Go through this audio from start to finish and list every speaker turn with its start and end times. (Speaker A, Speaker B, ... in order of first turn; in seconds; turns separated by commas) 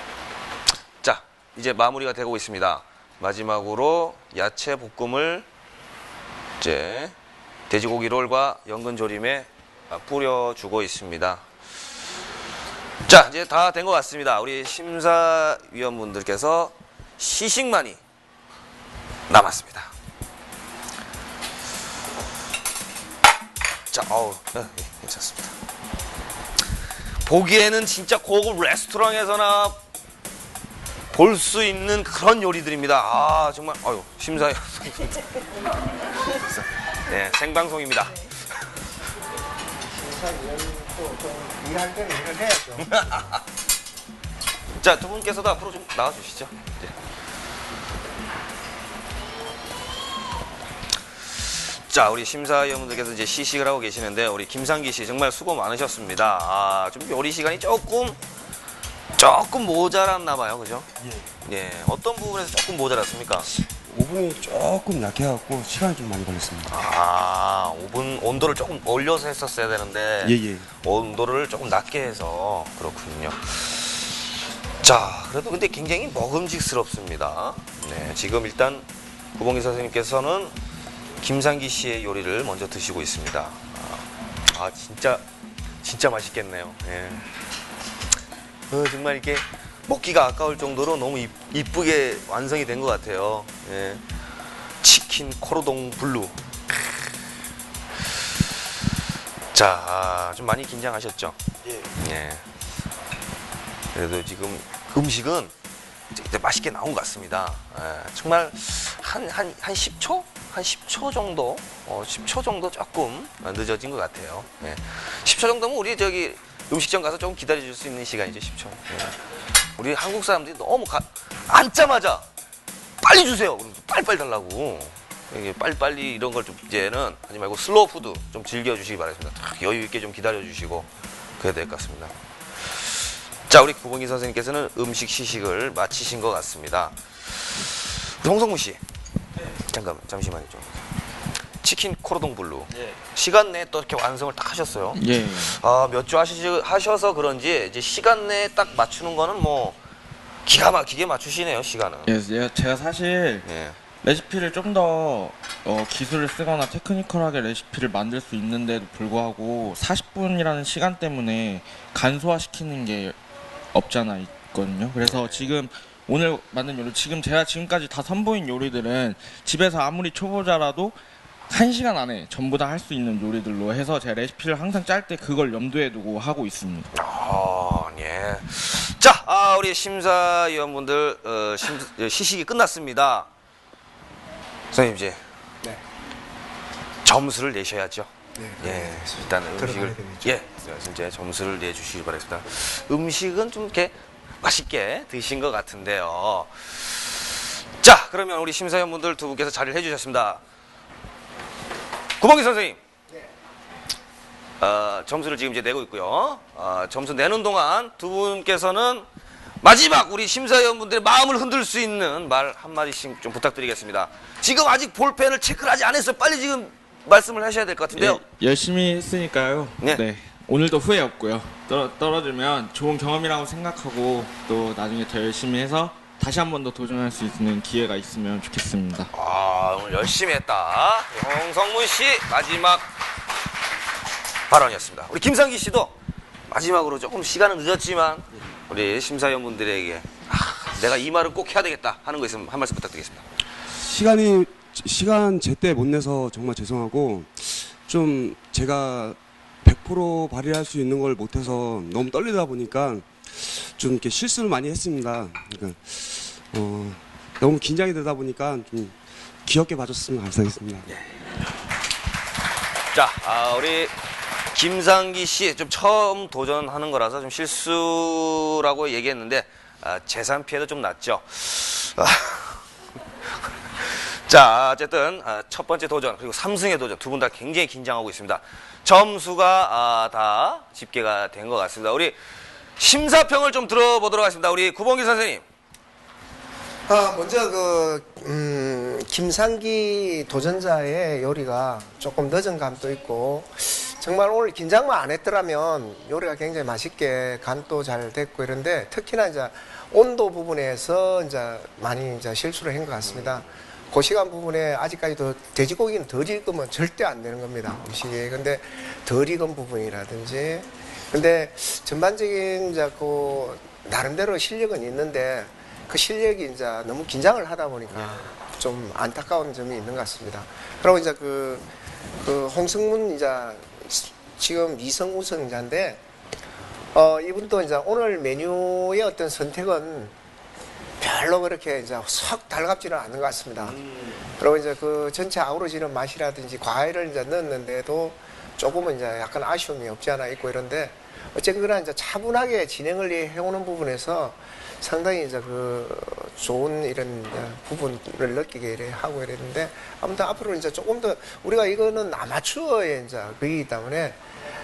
Speaker A: 1.0-5.5, Speaker A: 6.6-7.1, Speaker A: 7.7-11.4, Speaker A: 13.1-18.0, Speaker A: 19.3-19.9, Speaker A: 23.9-25.5, Speaker A: 27.2-29.8, Speaker A: 31.1-35.2, Speaker A: 36.5-38.1, Speaker B: 39.9-42.9, Speaker A: 42.8-43.4, Speaker A: 44.8-46.9, Speaker A: 51.6-58.2, Speaker A: 59.2-60.9, Speaker A: 61.5-63.5, Speaker C: 63.7-66.8, Speaker A: 66.7-74.2, Speaker C: 70.2-70.7, Speaker A: 74.8-78.9, Speaker A: 79.4-80.5, Speaker A: 81.2-85.2, Speaker A: 85.8-87.2, Speaker A: 88.7-94.0, Speaker A: 94.8-96.9, Speaker A: 99.5-101.4, Speaker A: 102.0-102.4, Speaker A: 104.0-105.5, Speaker A: 106.1-119.2, Speaker A: 119.8-122.2, Speaker A: 123.0-130.9, Speaker A: 131.4-132.1, Speaker A: 133.5-137.0, Speaker A: 137.5-138.8, Speaker A: 139.7-140.7, Speaker A: 141.6-149.8, Speaker D: 144.9-145.6, Speaker A: 150.5-152.1, Speaker D: 152.1-153.5, Speaker A: 153.4-153.8, Speaker D: 154.0-163.2, Speaker D: 163.7-171.0, Speaker A: 165.0-165.5, Speaker D: 171.5-176.9, Speaker A: 176.9-183.3, Speaker A: 184.7-185.2, Speaker A: 187.0-196.5, Speaker B: 188.4-190.4, Speaker A: 197.8-200.4, Speaker A: 202.2-202.8, Speaker A: 204.6-209.1, Speaker A: 209.6-218.2, Speaker D: 217.9-229.1, Speaker A: 229.1-232.9, Speaker A: 234.5-235.9, Speaker A: 236.5-243.2, Speaker C: 243.8-260.9, Speaker A: 262.9-263.9, Speaker A: 264.5-272.6, Speaker A: 273.8-282.2, Speaker A: 282.8-285.4, Speaker B: 286.9-321.7, Speaker B: 322.2-326.0, Speaker B: 326.9-330.1, Speaker B: 331.0-333.8, Speaker B: 334.4-354.2